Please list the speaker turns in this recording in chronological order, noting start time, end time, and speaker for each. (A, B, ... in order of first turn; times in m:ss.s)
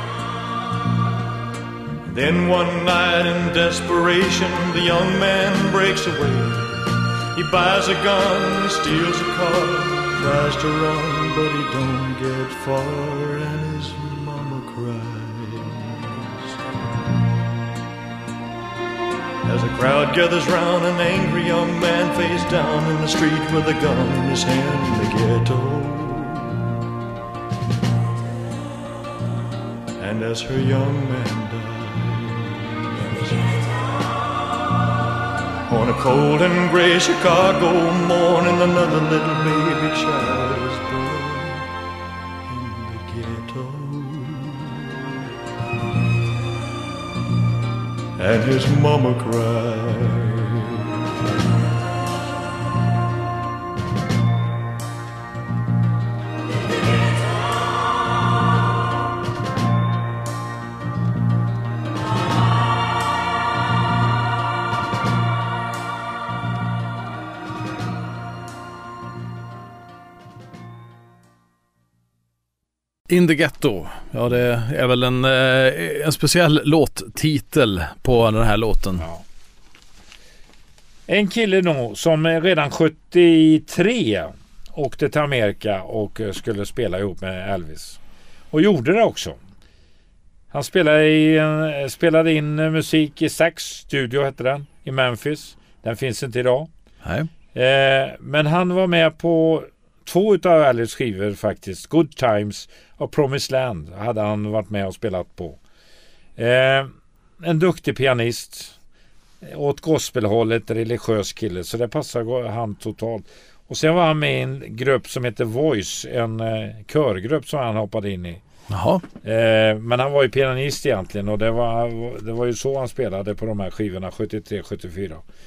0:02.1-0:16.6 A
0:19.4-0:26.7 A
0:30.0-0:33.7 A
0:35.7-0:41.7 A
0:42.5-0:45.2 A
0:48.2-0:51.0 A
1:13.1-1:19.1 B
1:21.1-1:28.0 C
1:28.5-1:29.4 C
1:30.5-1:36.7 C
1:37.0-1:37.3 B
1:37.5-1:45.6 C
1:46.4-1:48.7 C
1:49.4-1:58.4 C
1:58.7-1:59.0 B
1:59.2-2:05.2 C